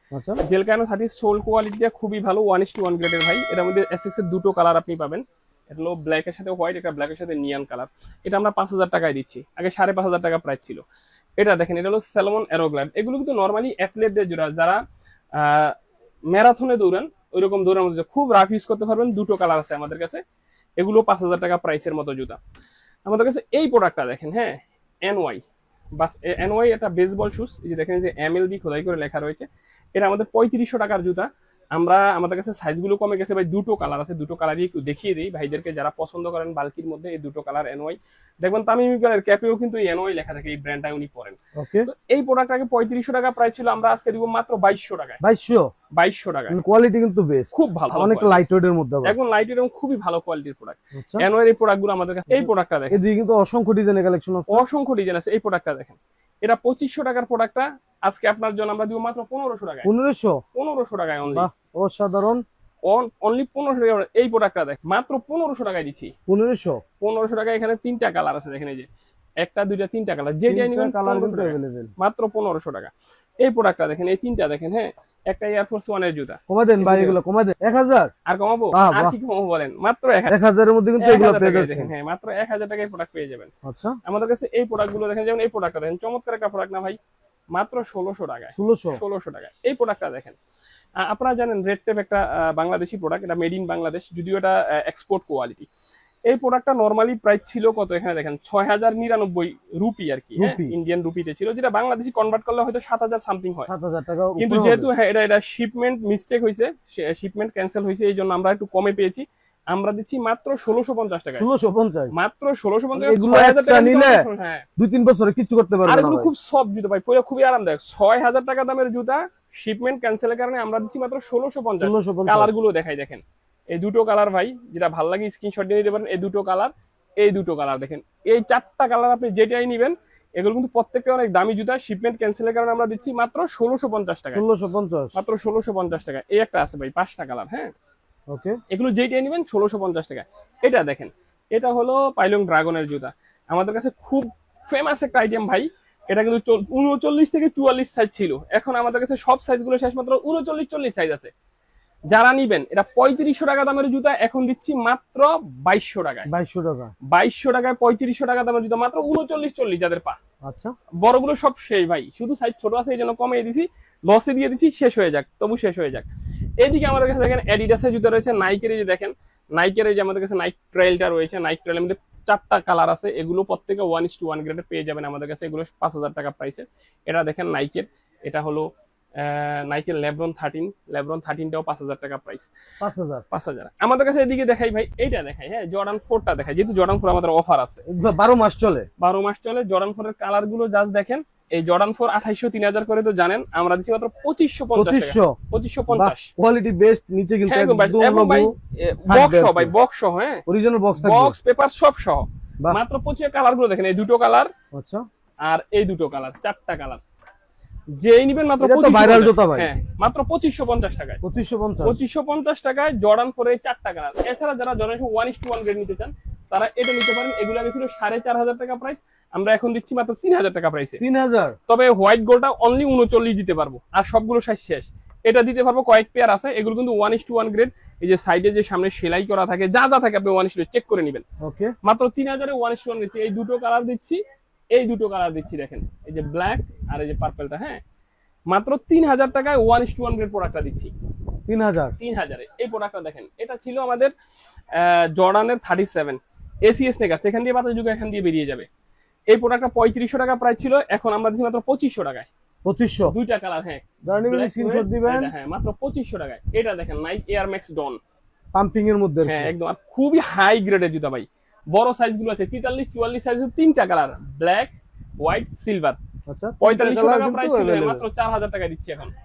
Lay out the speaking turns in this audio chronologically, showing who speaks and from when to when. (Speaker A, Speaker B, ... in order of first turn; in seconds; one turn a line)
Speaker A: 0.5-10.8
Speaker A: 11.4-14.8
Speaker A: 15.4-15.7
Speaker A: 16.3-20.2
Speaker A: 20.8-22.4
Speaker A: 23.1-25.4
Speaker A: 26.0-45.2
Speaker B: 41.6-41.9
Speaker B: 45.2-45.7
Speaker A: 46.0-46.6
Speaker B: 46.5-49.2
Speaker A: 47.5-48.4
Speaker A: 49.0-53.0
Speaker B: 51.0-51.3
Speaker B: 52.4-54.6
Speaker A: 54.5-59.9
Speaker B: 59.9-60.4
Speaker A: 60.5-61.5
Speaker B: 61.3-62.4
Speaker A: 62.9-66.1
Speaker B: 66.3-66.8
Speaker A: 67.0-68.9
Speaker A: 69.4-72.9
Speaker B: 70.5-71.9
Speaker A: 73.4-77.2
Speaker B: 76.5-78.1
Speaker A: 78.3-80.3
Speaker B: 78.7-79.2
Speaker B: 80.3-81.9
Speaker A: 81.0-83.5
Speaker B: 83.6-84.0
Speaker A: 84.0-87.0
Speaker A: 87.5-90.4
Speaker B: 88.6-89.0
Speaker A: 91.0-95.7
Speaker A: 96.3-103.7
Speaker B: 100.4-100.7
Speaker B: 103.7-104.9
Speaker A: 104.4-111.5
Speaker B: 111.4-112.1
Speaker A: 112.1-114.7
Speaker B: 113.0-114.2
Speaker B: 114.8-116.3
Speaker A: 115.9-123.2
Speaker B: 121.8-122.5
Speaker A: 123.7-134.4
Speaker B: 134.3-135.2
Speaker A: 135.2-137.7
Speaker B: 138.3-138.6
Speaker A: 138.7-151.3
Speaker A: 152.1-156.3
Speaker B: 156.3-156.9
Speaker A: 157.1-160.2
Speaker B: 160.4-160.7
Speaker A: 161.0-166.1
Speaker A: 166.6-178.7
Speaker A: 179.2-182.5
Speaker B: 182.8-183.2
Speaker A: 183.3-187.8
Speaker B: 187.9-188.9
Speaker A: 189.0-196.3
Speaker B: 194.8-195.4
Speaker B: 195.9-198.5
Speaker A: 197.5-200.4
Speaker B: 199.1-199.7
Speaker B: 200.5-201.4
Speaker A: 201.0-204.5
Speaker B: 204.7-205.0
Speaker A: 205.4-207.0
Speaker A: 207.9-211.2
Speaker B: 208.6-209.7
Speaker B: 211.2-212.0
Speaker A: 211.8-221.0
Speaker B: 221.0-221.6
Speaker A: 221.7-231.2
Speaker B: 231.4-231.7
Speaker A: 231.8-234.2
Speaker A: 234.7-237.8
Speaker A: 238.5-240.9
Speaker B: 241.5-241.9
Speaker A: 242.0-244.1
Speaker A: 244.7-248.7
Speaker A: 249.3-252.3
Speaker B: 252.7-253.1
Speaker A: 253.1-258.0
Speaker B: 254.1-255.3
Speaker B: 258.6-259.5
Speaker A: 259.2-266.0
Speaker B: 266.3-268.0
Speaker A: 266.6-269.1